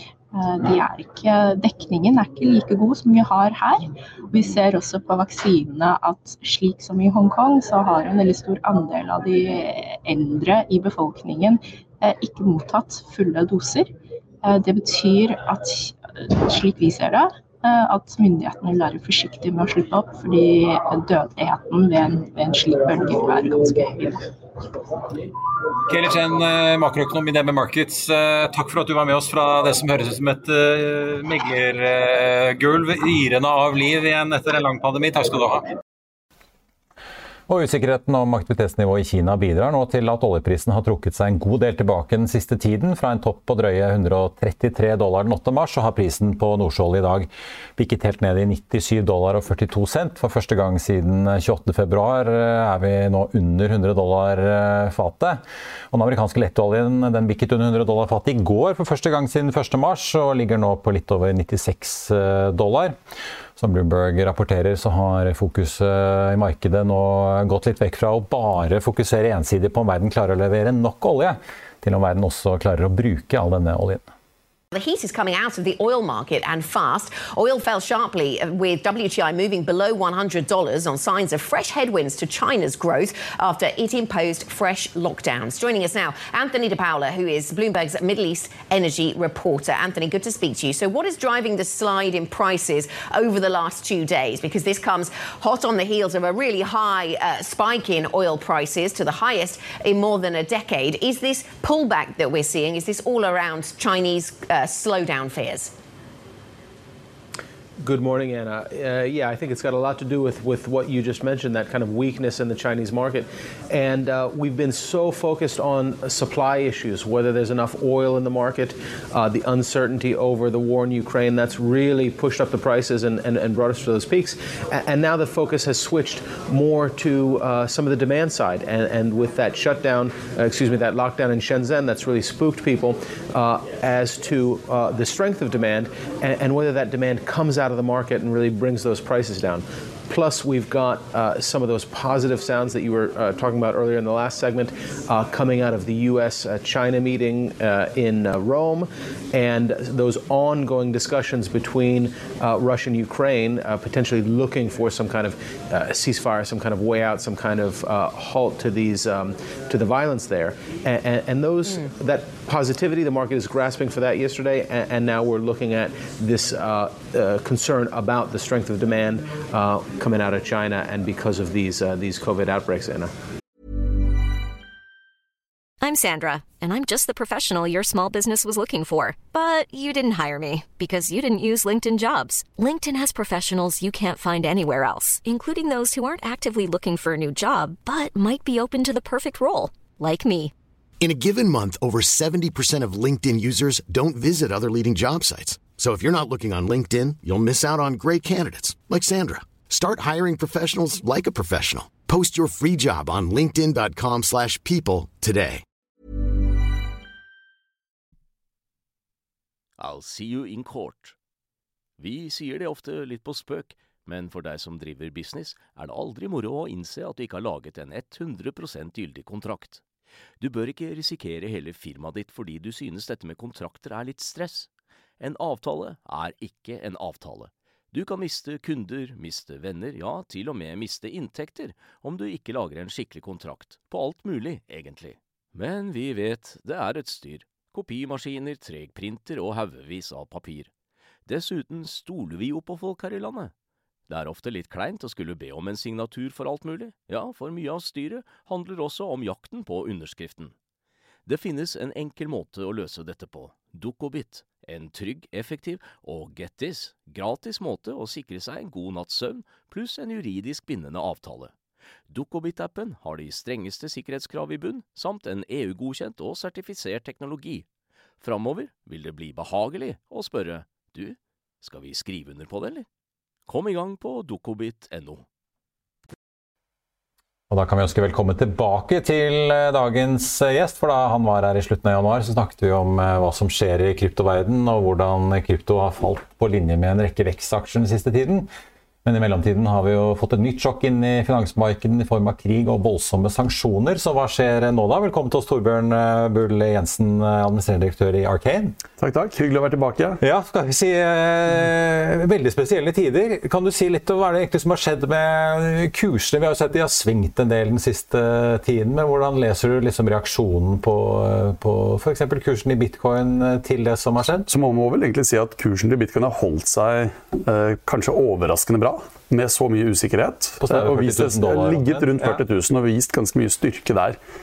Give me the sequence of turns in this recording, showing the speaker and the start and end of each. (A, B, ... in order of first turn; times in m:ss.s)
0:00.3-0:13.9 A
0:14.4-0:24.3 A
0:25.9-0:35.7 B
0:37.5-1:03.0 C
1:03.6-1:14.0 C
1:14.7-1:45.7 D
1:47.8-2:53.1 E
2:55.8-3:10.5 F
3:11.0-3:25.6 G
3:29.8-3:31.2 H
3:32.0-3:39.8 H
3:40.4-3:44.7 H
3:45.2-4:00.7 H
4:01.3-4:03.5 H
4:04.1-4:10.5 H
4:11.2-4:21.5 H
4:22.1-4:27.6 H
4:28.2-4:32.9 H
4:33.5-4:35.2 H
4:37.5-4:48.5 C
4:49.0-4:58.8 C
4:59.0-5:00.2 I
5:00.2-5:14.5 C
5:14.5-5:24.2 I
5:20.6-5:22.4 C